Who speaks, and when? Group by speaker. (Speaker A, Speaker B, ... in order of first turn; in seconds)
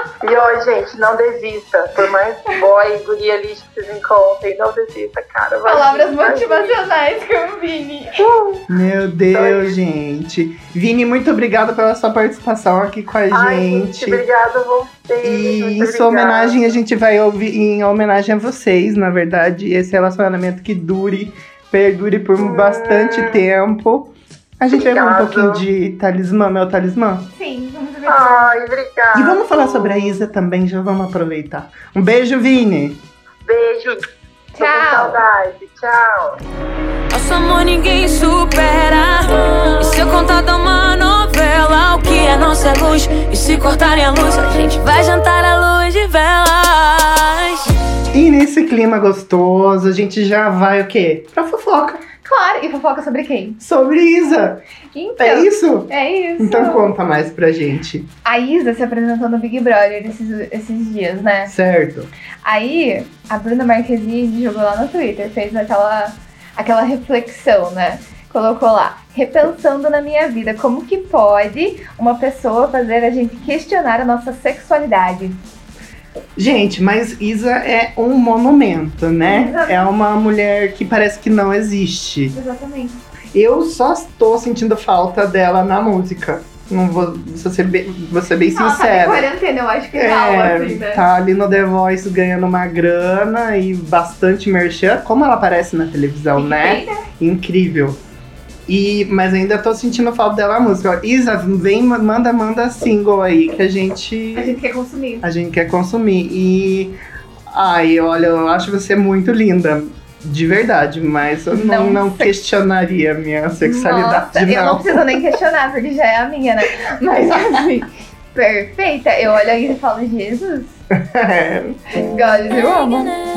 Speaker A: 0.2-6.8, 8.2-8.7, 9.3-9.7, 13.3-16.8, 22.4-23.4, 24.7-25.6, 28.1-29.5, 33.4-36.4
Speaker B: 5.6-8.2, 27.3-28.5, 34.5-35.2, 52.2-53.6, 54.9-57.0, 58.2-61.5, 62.4-75.4, 79.2-79.8, 82.3-83.0, 88.5-91.0, 96.3-97.0, 104.3-105.2, 111.5-112.3, 113.6-120.8, 122.0-123.2
Speaker C: 8.7-14.2, 15.2-27.3, 29.1-33.0, 48.1-52.0, 53.6-54.6, 55.2-58.1, 61.4-62.1, 76.3-82.3, 83.3-89.3, 89.9-98.0, 98.7-104.6, 105.2-107.0, 107.5-115.3, 117.1-117.6, 121.0-121.8
Speaker D: 37.1-47.7